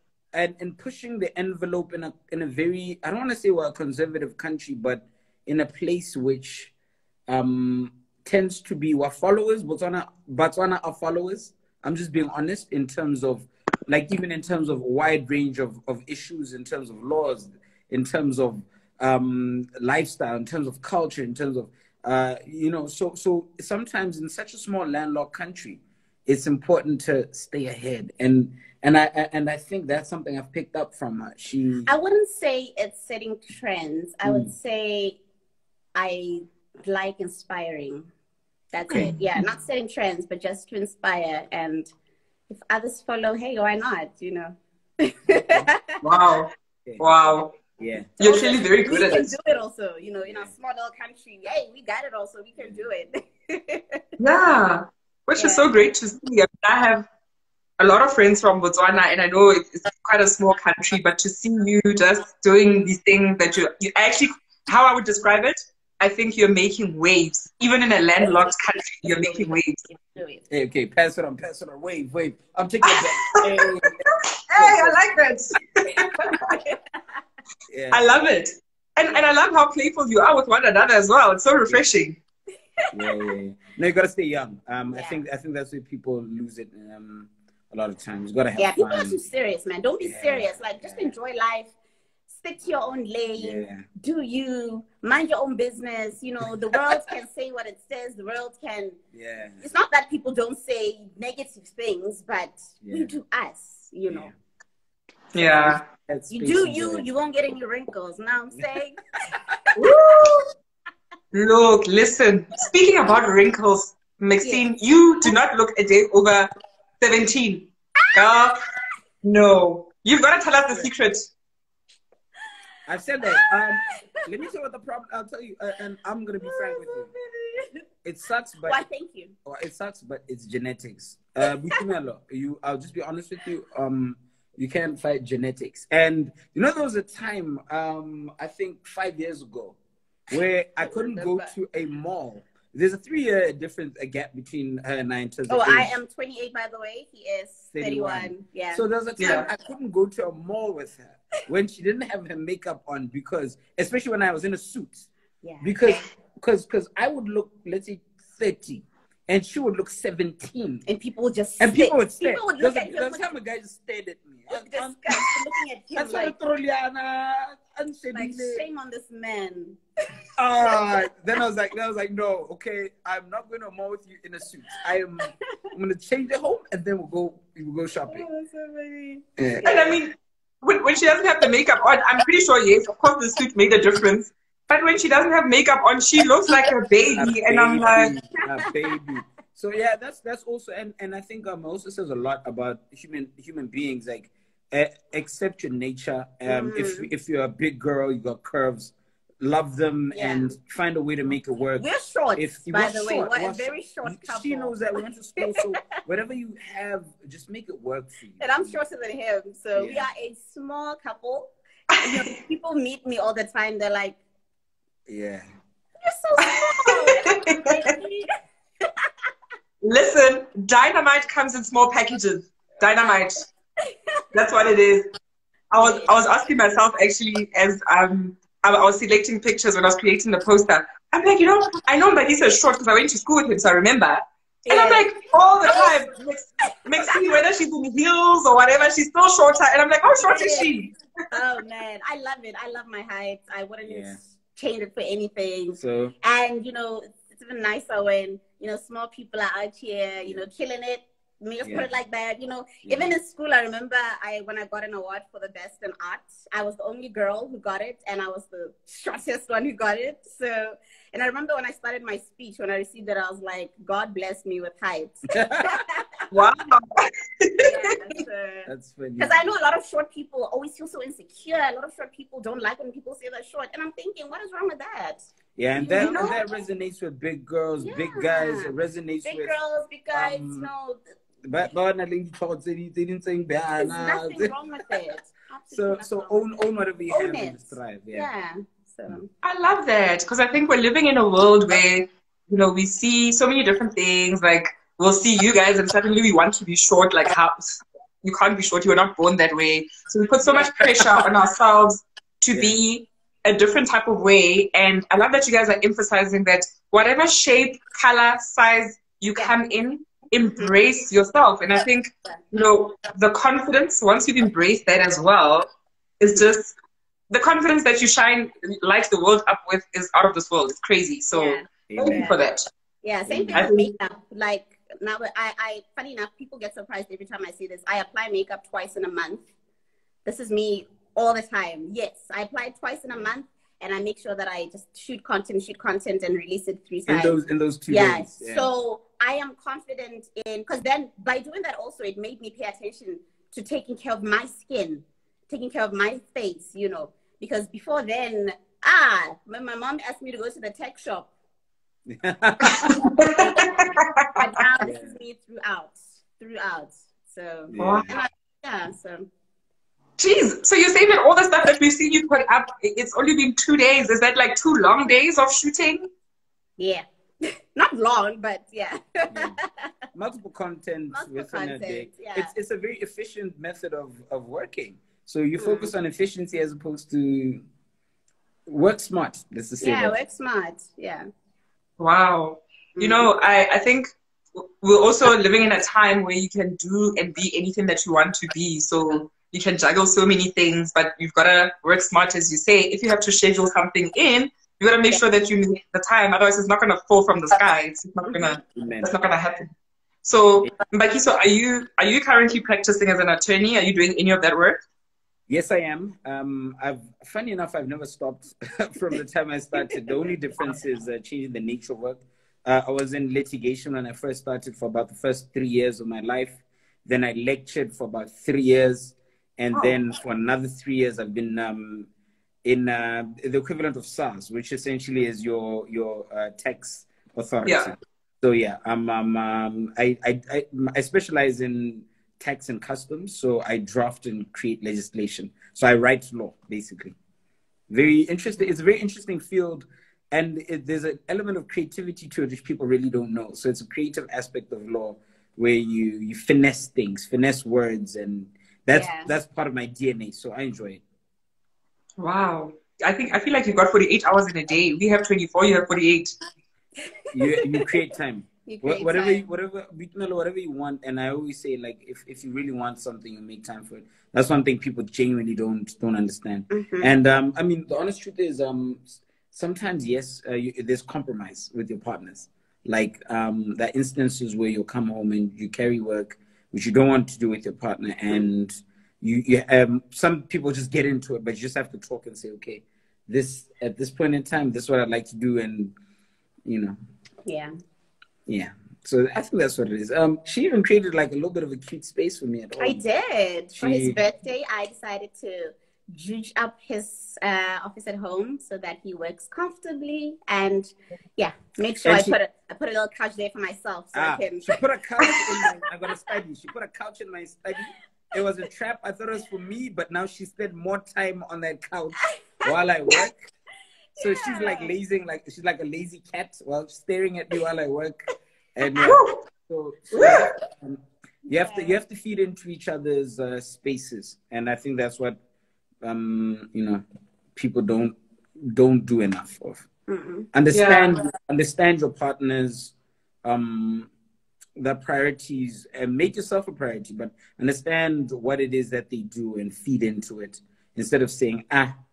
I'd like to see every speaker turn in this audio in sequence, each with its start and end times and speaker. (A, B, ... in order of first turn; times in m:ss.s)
0:00.3-0:06.7 A
0:07.3-0:31.9 A
0:31.9-0:35.2 B
0:34.2-0:34.5 A
0:36.0-0:38.1 B
0:38.7-0:41.9 B
0:38.9-0:39.2 A
0:42.5-0:46.0 B
0:45.4-0:45.7 A
0:46.0-0:47.5 C
0:46.9-0:47.1 A
0:47.8-0:48.2 A
0:48.2-0:49.3 C
0:48.2-0:54.0 B
0:50.2-0:50.5 A
0:52.6-0:52.9 A
0:54.2-0:57.1 C
0:55.4-0:55.7 B
0:57.8-1:09.8 C
1:09.0-1:10.4 B
1:10.5-1:13.9 A
1:14.5-1:16.6 C
1:14.6-1:14.9 A
1:17.7-1:18.1 A
1:17.9-1:22.2 C
1:22.9-1:29.2 A
1:24.9-1:25.2 B
1:28.6-1:31.7 B
1:30.0-1:31.1 A
1:32.3-1:39.0 B
1:33.4-1:33.8 A
1:39.1-1:39.6 A
1:39.6-1:44.3 B
1:42.8-1:43.1 A
1:44.1-1:44.3 A
1:45.4-1:45.8 C
1:45.4-1:47.1 A
1:46.3-1:49.9 B
1:49.8-1:50.5 C
1:51.3-1:58.6 C
1:58.0-1:58.5 B
1:59.2-2:01.3 C
2:02.9-2:07.1 A
2:03.3-2:03.8 B
2:06.4-2:07.7 B
2:08.0-2:08.8 A
2:08.6-2:09.3 B
2:09.4-2:19.8 A
2:11.5-2:11.8 B
2:20.3-2:25.9 A
2:20.8-2:21.5 B
2:25.5-2:28.8 B
2:27.7-2:35.1 A
2:29.2-2:29.5 C
2:35.4-2:36.1 B
2:35.6-2:40.8 A
2:40.9-2:43.3 B
2:41.6-2:45.3 A
2:44.5-2:46.3 B
2:46.0-2:48.6 A
2:48.1-2:49.8 B
2:50.4-2:58.3 A
2:58.1-3:00.0 B
2:59.4-2:59.6 A
2:59.6-3:08.1 C
3:07.2-3:28.8 A
3:16.5-3:17.1 B
3:20.1-3:20.5 B
3:21.8-3:24.8 B
3:28.4-3:34.2 B
3:29.8-3:30.1 A
3:31.9-3:32.3 C
3:35.1-3:35.5 A
3:36.0-3:38.3 B
3:36.4-3:37.8 C
3:39.8-3:43.4 C
3:43.9-3:44.2 B
3:44.3-3:45.1 C
3:45.7-4:01.0 C
3:45.8-3:46.1 B
3:54.7-3:56.0 B
3:57.0-3:57.4 B
4:00.1-4:00.7 B
4:01.3-4:26.2 B
4:03.8-4:04.2 A
4:05.8-4:06.1 A
4:11.6-4:11.9 A
4:12.8-4:13.1 A
4:25.4-4:25.9 A
4:26.3-4:28.0 C
4:27.6-4:35.2 B
4:28.7-4:29.3 A
4:35.6-4:39.6 A
4:35.8-4:36.3 B
4:36.0-4:36.4 C
4:37.8-4:38.7 B
4:39.2-4:41.0 B
4:40.1-4:40.7 A
4:41.4-4:44.5 A
4:43.8-4:46.5 B
4:45.7-4:48.3 A
4:47.1-4:49.3 B
4:49.4-5:15.7 C
5:16.2-5:16.7 C
5:17.3-5:22.7 C
5:21.3-5:22.4 B
5:21.9-5:22.2 A
5:23.0-5:29.4 B
5:23.3-5:23.7 A
5:23.6-5:23.9 C
5:30.2-5:37.4 B
5:37.1-5:38.7 A
5:37.9-5:51.3 B
5:52.1-5:53.0 A
5:52.7-5:54.6 C
5:53.3-5:59.3 B
5:54.8-5:55.2 A
5:57.7-5:58.2 A
5:57.8-5:58.1 C
6:00.2-6:06.1 C
6:06.8-6:07.0 B
6:07.7-6:09.9 B
6:09.3-6:09.6 A
6:10.1-6:17.6 A
6:11.1-6:12.5 B
6:15.6-6:15.9 B
6:18.7-6:20.2 A
6:19.8-6:21.3 B
6:22.0-6:39.7 C
6:23.0-6:23.3 B
6:38.7-6:39.1 A
6:40.2-6:44.8 C
6:45.5-7:02.1 A
7:02.6-7:17.2 A
7:07.6-7:07.9 C
7:17.9-7:31.0 A
7:28.9-7:29.3 B
7:32.2-7:36.4 C
7:37.3-8:05.9 A
7:38.7-7:39.4 B
7:46.7-7:47.1 B
8:06.7-8:07.0 A
8:07.5-8:07.7 B
8:08.5-8:13.0 A
8:12.8-8:25.8 B
8:13.8-8:14.2 A
8:22.0-8:22.4 A
8:24.1-8:33.5 A
8:34.2-8:35.0 B
8:34.2-8:38.2 A
8:38.8-8:45.4 A
8:38.9-8:39.3 B
8:39.1-8:39.4 C
8:40.1-8:40.5 C
8:41.5-8:42.0 B
8:46.0-8:47.0 A
8:47.6-8:49.9 A
8:50.1-8:50.5 B
8:50.5-8:52.9 A
8:50.7-8:51.1 C
8:53.4-8:54.1 A
8:54.8-9:01.9 A